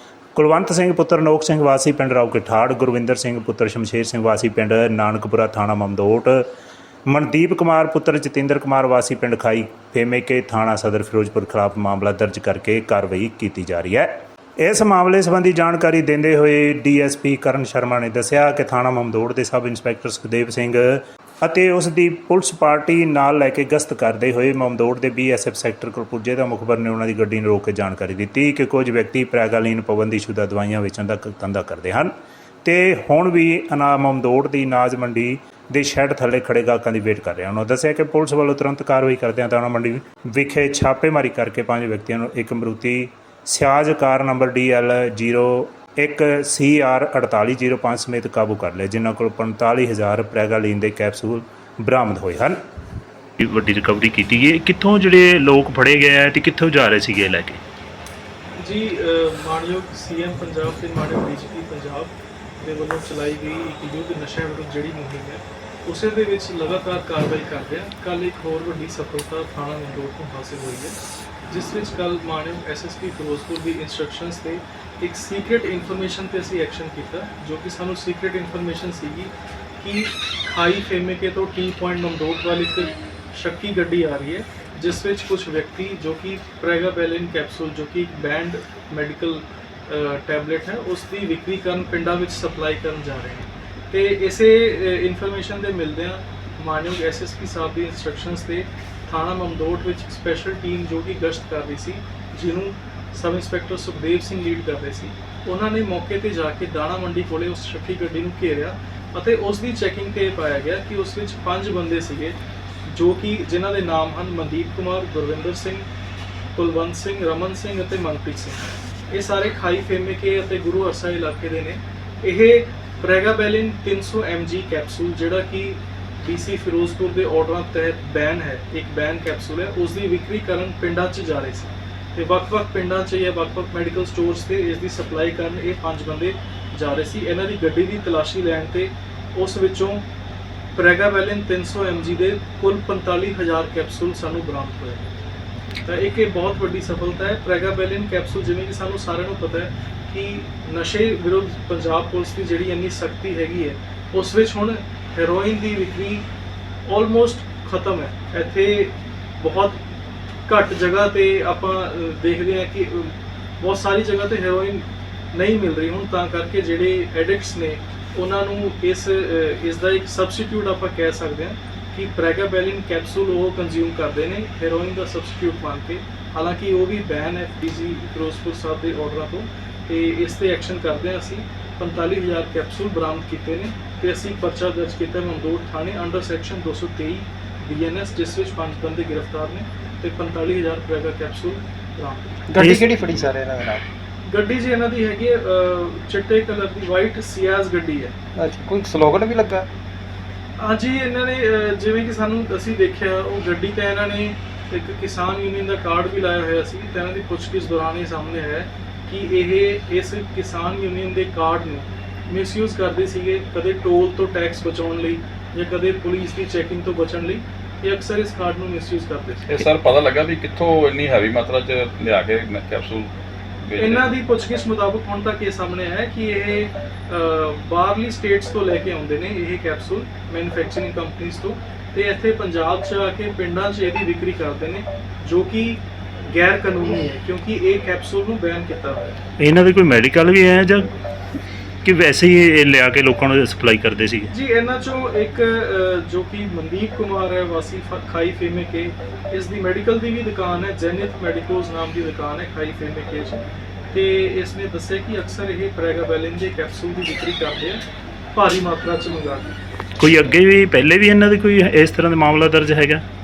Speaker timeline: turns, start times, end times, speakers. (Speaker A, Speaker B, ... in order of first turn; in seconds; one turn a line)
Speaker A: 0.3-6.4
Speaker A: 7.1-32.1
Speaker A: 32.6-52.6
Speaker A: 53.4-57.6
Speaker B: 58.6-71.0
Speaker B: 71.5-112.4
Speaker B: 112.9-115.8
Speaker B: 116.5-140.0
Speaker B: 140.7-145.1
Speaker B: 145.8-156.2
Speaker B: 156.8-159.9
Speaker B: 160.5-192.4
Speaker C: 192.5-193.8
Speaker A: 192.5-192.9
Speaker B: 194.2-198.1
Speaker C: 198.3-199.7
Speaker B: 200.6-219.6
Speaker D: 219.5-223.1
Speaker D: 223.6-224.1
Speaker B: 223.8-239.2
Speaker A: 239.4-240.9
Speaker A: 241.8-244.3
Speaker B: 244.3-257.8
Speaker B: 258.3-259.5
Speaker A: 260.0-263.0